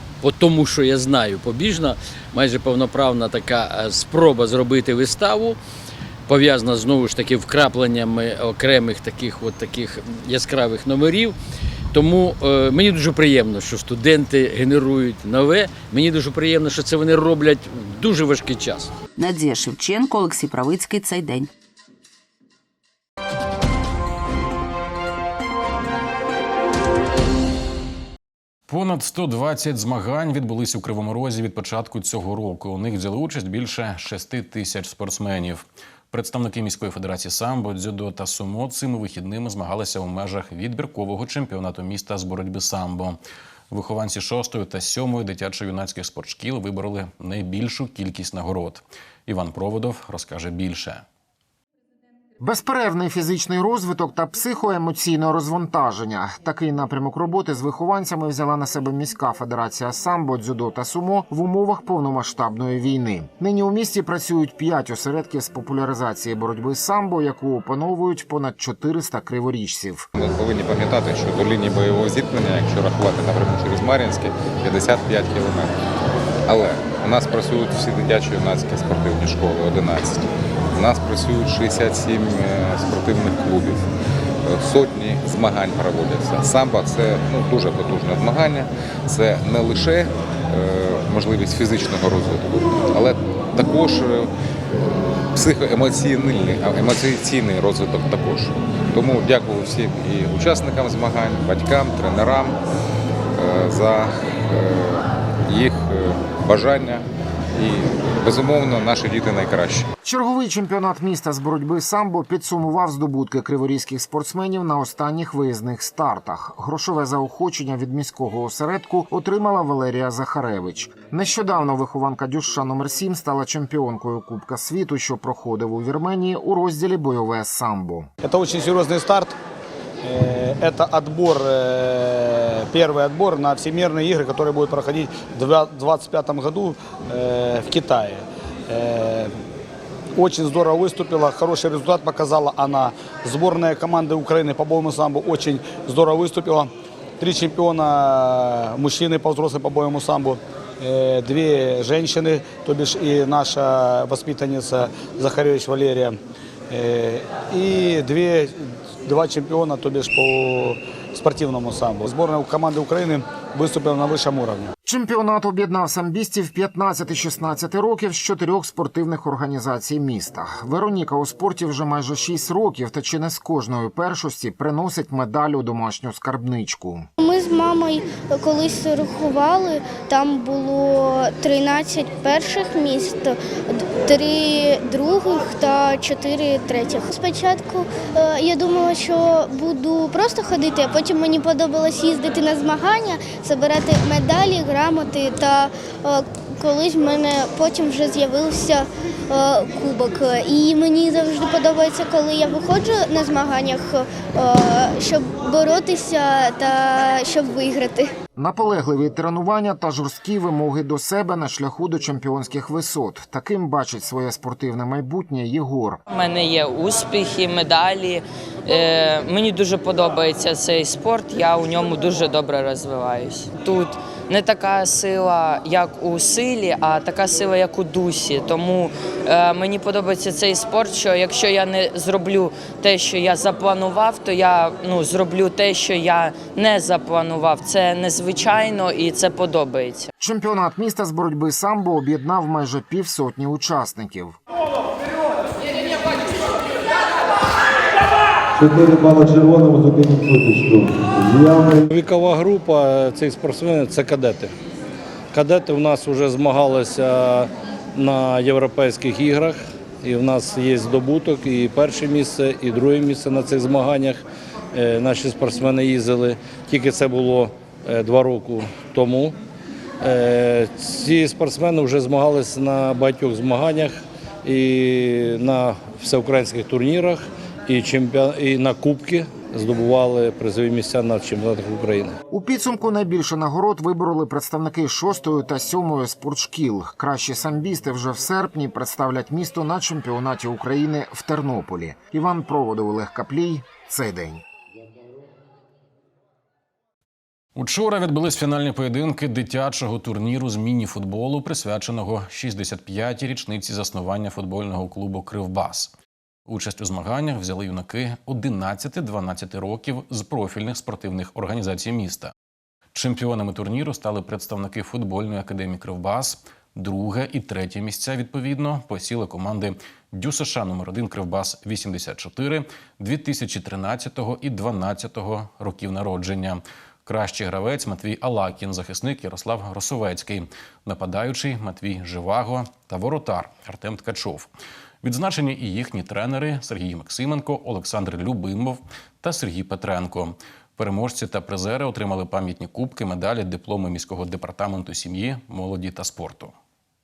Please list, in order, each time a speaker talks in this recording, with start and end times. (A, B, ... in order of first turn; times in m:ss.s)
0:00.2-0:05.6 A
0:06.3-0:11.4 A
0:11.9-0:18.9 A
0:19.2-0:21.5 B
0:28.7-0:43.2 C
0:43.7-0:51.0 C
0:52.4-1:10.1 D
1:10.2-1:15.7 E
1:16.5-1:23.8 E
1:24.4-1:42.6 E
1:43.4-1:49.9 E
1:50.0-2:08.1 D
2:08.2-2:09.4 F
2:10.0-2:19.3 F
2:20.2-2:36.2 F
2:36.7-2:44.7 F
2:44.8-2:57.1 D
2:57.2-3:28.1 G
3:28.4-3:36.0 D
3:36.1-4:00.1 H
4:00.2-4:04.4 D
4:08.6-4:11.9 I
4:11.9-4:14.6 J
4:15.3-4:29.4 J
4:30.0-4:42.2 J
4:42.3-4:54.4 D
4:57.6-5:05.9 C
5:06.5-5:12.3 C
5:12.9-5:34.5 C
5:35.0-5:46.5 C